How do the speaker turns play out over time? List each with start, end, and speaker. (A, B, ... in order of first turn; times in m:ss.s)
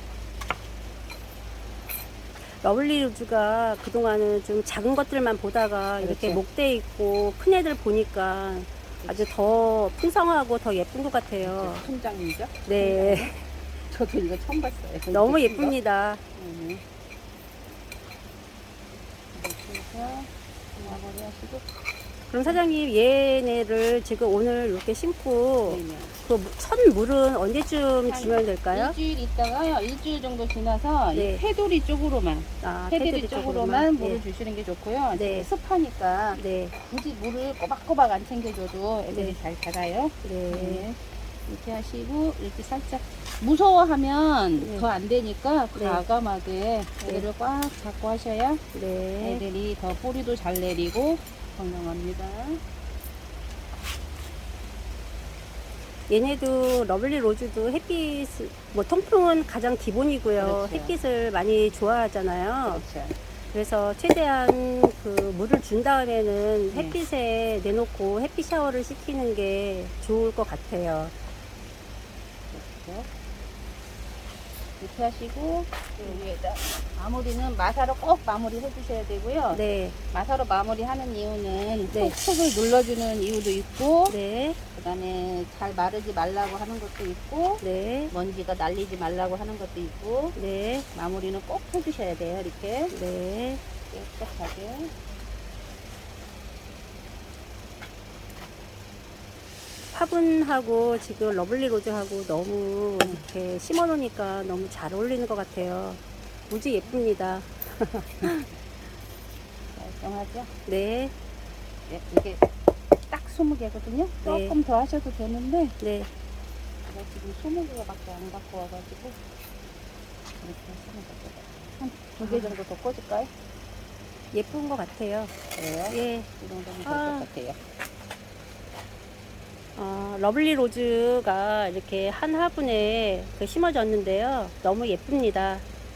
0:02.5-0:11.8 A
0:06.0-0:06.4 B
0:09.0-0:09.5 B
0:11.4-0:15.8 B
0:12.6-0:13.4 A
0:15.1-0:16.2 A
0:16.4-0:16.8 B
0:19.3-0:21.7 B
0:22.3-0:29.0 A
0:25.6-0:26.2 B
0:28.0-0:48.6 B
0:31.1-0:31.4 A
0:32.6-0:34.2 A
0:35.1-0:35.5 A
0:36.3-0:36.7 A
0:39.1-0:39.4 A
0:40.2-0:40.8 A
0:44.6-0:44.9 A
0:45.7-0:46.0 A
0:48.7-0:49.4 A
0:49.2-0:52.6 B
0:56.1-1:02.8 A
1:00.4-1:01.0 B
1:02.6-1:03.2 B
1:03.5-1:11.1 A
1:06.7-1:07.0 B
1:12.5-1:13.1 B
1:14.8-1:19.6 B
1:19.5-1:20.0 A
1:20.1-1:24.1 B
1:21.9-1:22.2 A
1:24.1-1:24.6 A
1:24.7-1:30.4 B
1:27.6-1:28.1 A
1:30.4-1:30.9 A
1:30.9-1:32.9 B
1:32.9-1:33.6 A
1:33.9-1:34.9 B
1:39.9-1:48.4 A
1:49.7-1:50.5 B
1:50.7-1:51.1 A
1:51.9-1:52.4 B
1:53.1-1:55.8 B
1:54.2-1:54.6 A
1:55.8-1:56.1 A
1:56.8-1:59.2 B
2:00.4-2:03.3 B
2:02.2-2:02.6 A
2:04.3-2:05.3 A
2:05.5-2:07.6 B
2:05.9-2:06.3 A
2:06.8-2:07.3 A
2:09.8-2:15.6 A